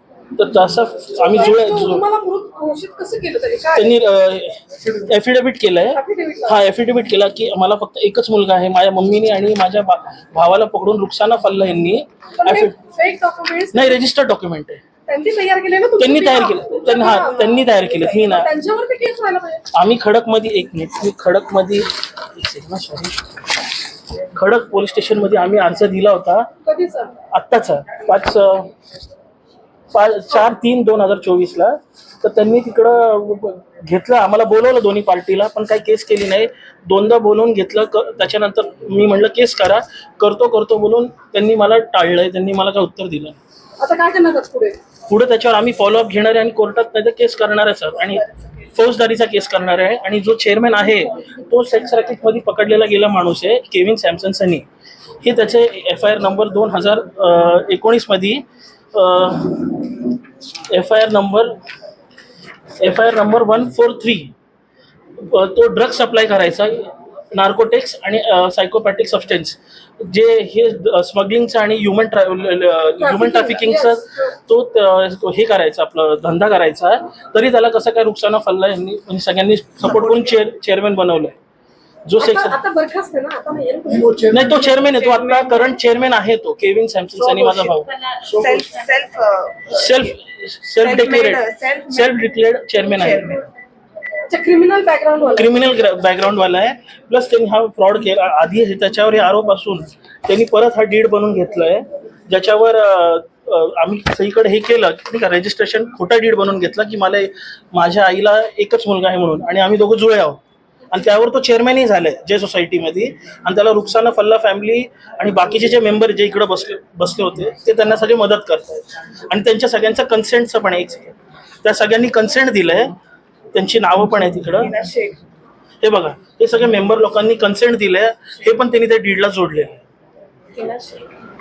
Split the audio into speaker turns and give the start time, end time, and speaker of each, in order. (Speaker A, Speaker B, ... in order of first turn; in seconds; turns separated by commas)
Speaker A: 0.4-2.0, Speaker B: 1.2-4.0, Speaker A: 3.7-12.8, Speaker B: 5.9-6.6, Speaker B: 12.4-14.0, Speaker A: 13.7-14.8, Speaker B: 15.1-19.6, Speaker A: 16.0-18.5, Speaker A: 19.8-23.4, Speaker A: 24.3-26.5, Speaker B: 26.6-27.1, Speaker A: 27.3-28.7, Speaker A: 29.9-43.4, Speaker B: 43.8-44.8, Speaker A: 45.1-54.6, Speaker A: 55.2-60.1, Speaker A: 60.7-61.6, Speaker A: 62.8-64.3, Speaker A: 65.2-81.4, Speaker B: 73.0-74.0, Speaker A: 82.1-82.6, Speaker B: 82.2-84.4, Speaker A: 84.3-87.9, Speaker C: 84.9-85.6, Speaker C: 87.4-87.8, Speaker C: 88.4-89.4, Speaker A: 89.7-93.4, Speaker C: 90.8-92.1, Speaker B: 94.3-95.6, Speaker A: 95.3-110.4, Speaker A: 110.9-122.9, Speaker A: 123.5-124.8, Speaker A: 125.8-129.8, Speaker B: 130.6-131.0